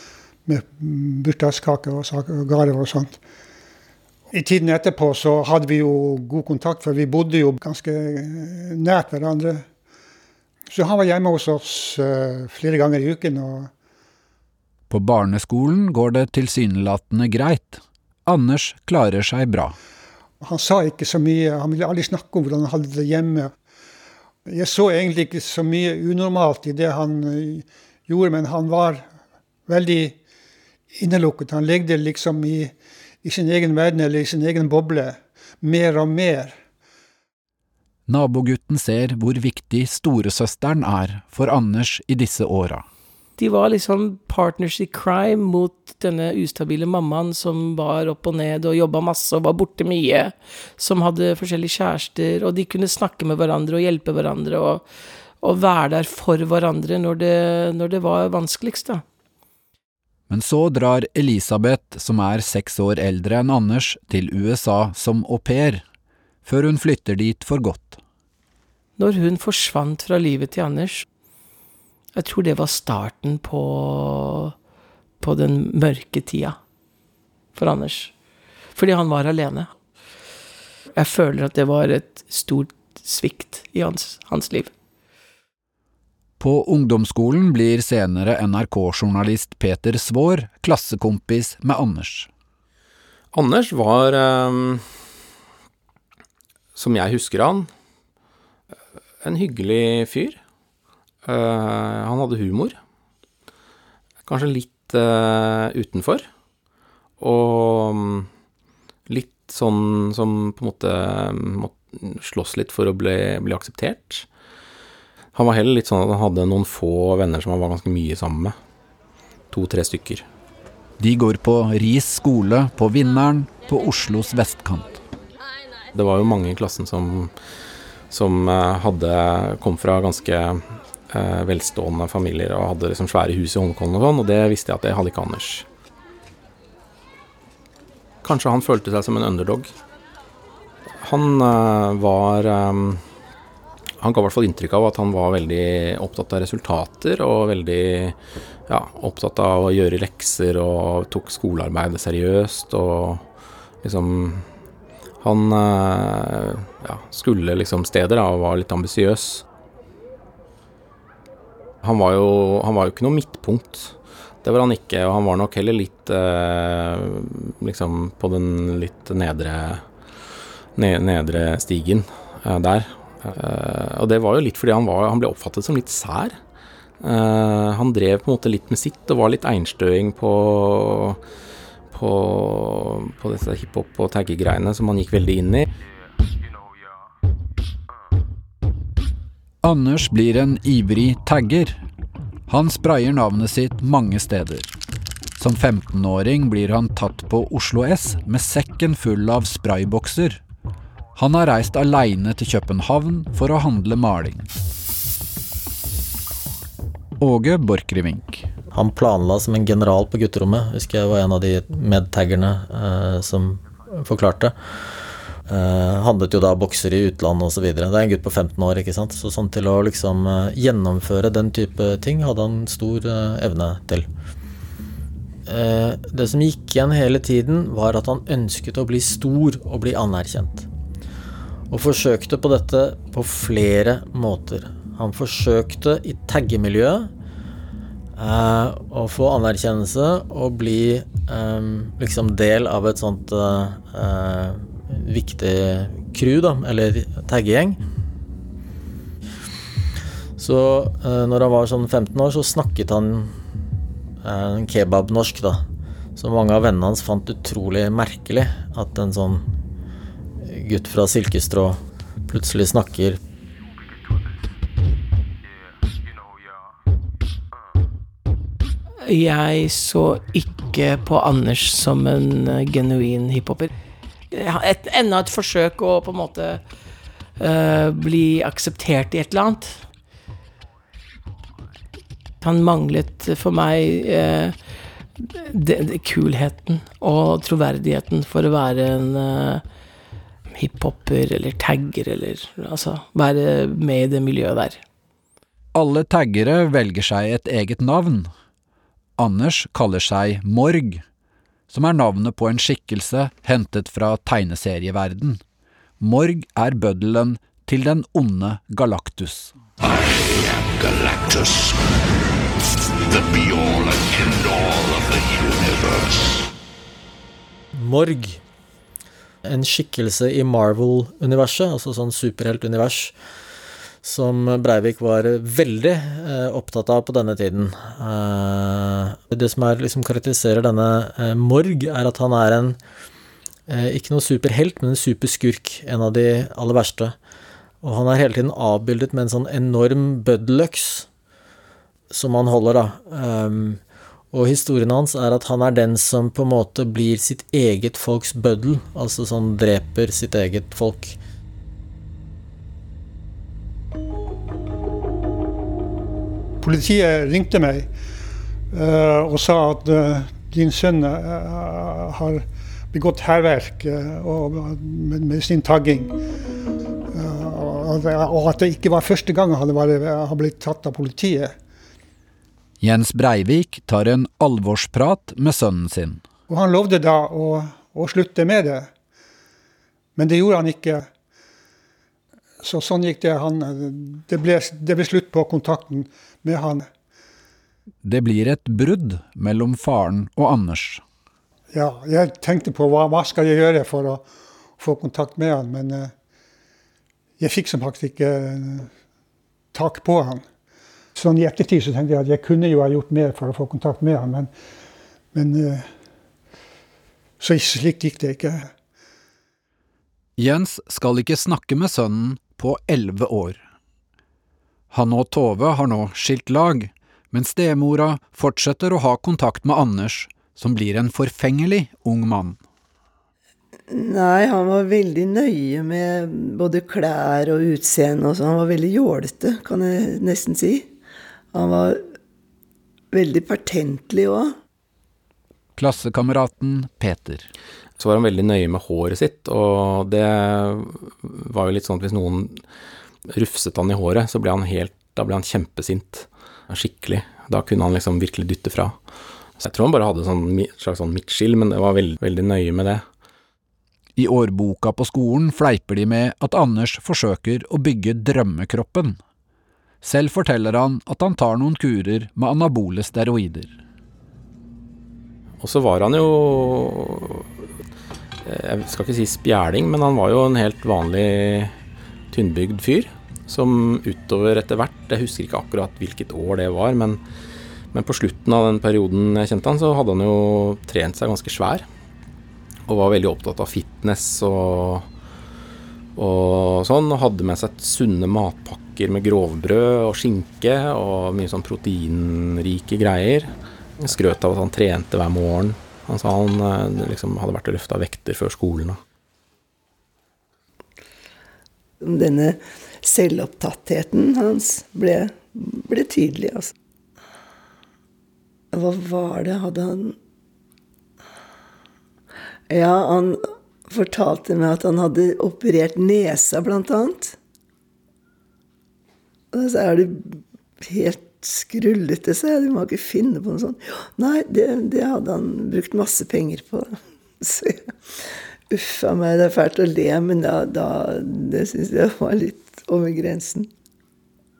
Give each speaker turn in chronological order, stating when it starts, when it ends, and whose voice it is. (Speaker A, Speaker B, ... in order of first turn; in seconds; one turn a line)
Speaker A: 0.5-3.2
Speaker A: 4.3-9.6
Speaker A: 10.7-13.7
Speaker B: 14.9-19.8
Speaker A: 20.4-23.5
Speaker A: 24.4-29.1
Speaker A: 29.7-30.1
Speaker A: 30.9-36.5
Speaker B: 38.1-42.8
Speaker C: 43.4-54.8
Speaker C: 55.4-59.0
Speaker B: 60.3-65.8
Speaker B: 66.4-68.0
Speaker C: 69.0-71.0
Speaker C: 72.1-74.5
Speaker C: 75.2-76.6
Speaker C: 77.5-78.1
Speaker C: 78.7-79.7
Speaker C: 80.9-84.7
Speaker B: 86.4-92.3
Speaker D: 93.3-94.8
Speaker D: 96.7-97.7
Speaker D: 99.2-100.4
Speaker D: 101.2-102.8
Speaker D: 104.2-106.3
Speaker D: 107.2-108.3
Speaker D: 109.1-114.3
Speaker D: 115.3-118.5
Speaker D: 119.5-120.2
Speaker B: 121.0-125.0
Speaker D: 125.9-127.3
Speaker D: 128.1-135.7
Speaker D: 138.2-139.7
Speaker D: 141.0-143.0
Speaker D: 144.0-148.2
Speaker D: 148.7-153.2
Speaker D: 153.8-154.5
Speaker D: 155.2-159.4
Speaker D: 161.8-169.8
Speaker D: 170.8-176.4
Speaker D: 177.0-181.2
Speaker D: 181.9-185.7
Speaker B: 189.6-191.8
Speaker B: 192.5-194.7
Speaker B: 195.4-200.4
Speaker B: 201.2-204.5
Speaker B: 207.2-208.5
Speaker E: 208.7-214.6
Speaker E: 215.5-224.1
Speaker E: 225.4-230.7
Speaker E: 231.7-237.1
Speaker E: 238.2-247.8
Speaker E: 250.4-253.4
Speaker E: 254.2-255.6
Speaker E: 256.1-259.4
Speaker E: 260.4-263.2
Speaker C: 269.0-273.7
Speaker C: 274.3-276.6
Speaker C: 277.4-279.8
Speaker C: 282.4-284.6
Speaker C: 285.2-289.6
Speaker C: 290.5-294.8
Speaker B: 295.7-298.3
Speaker B: 299.2-301.0
Speaker B: 301.7-305.4
Speaker B: 306.0-309.6
Speaker F: 310.0-311.8
Speaker F: 313.1-316.2
Speaker E: 317.7-318.4
Speaker E: 319.4-323.1
Speaker E: 324.0-332.8
Speaker E: 333.7-337.1
Speaker E: 337.8-341.1
Speaker E: 342.1-351.2
Speaker A: 356.6-357.9
Speaker A: 358.7-366.1
Speaker A: 367.1-371.5
Speaker B: 372.8-376.2
Speaker A: 376.5-378.9
Speaker A: 380.1-381.1
Speaker A: 382.6-386.9
Speaker B: 388.0-391.0
Speaker A: 391.7-394.2
Speaker A: 394.8-396.1
Speaker A: 397.4-398.9
Speaker A: 399.7-400.4
Speaker A: 401.1-404.5
Speaker A: 405.3-405.9
Speaker A: 407.4-408.7
Speaker B: 410.4-413.6
Speaker B: 414.9-422.6
Speaker G: 423.9-430.9
Speaker G: 431.5-432.0
Speaker G: 433.1-434.5
Speaker B: 435.8-437.5
Speaker D: 438.0-442.6
Speaker D: 443.3-448.9
Speaker D: 449.6-453.0
Speaker B: 454.1-459.2
Speaker B: 460.0-463.7
Speaker D: 465.6-467.5
Speaker D: 468.4-471.7
Speaker D: 472.3-477.2
Speaker D: 477.9-481.9
Speaker D: 482.9-485.1
Speaker D: 486.1-499.0
Speaker G: 502.0-506.7
Speaker G: 508.7-510.2
Speaker G: 512.7-517.4
Speaker G: 519.5-527.9
Speaker G: 528.7-533.7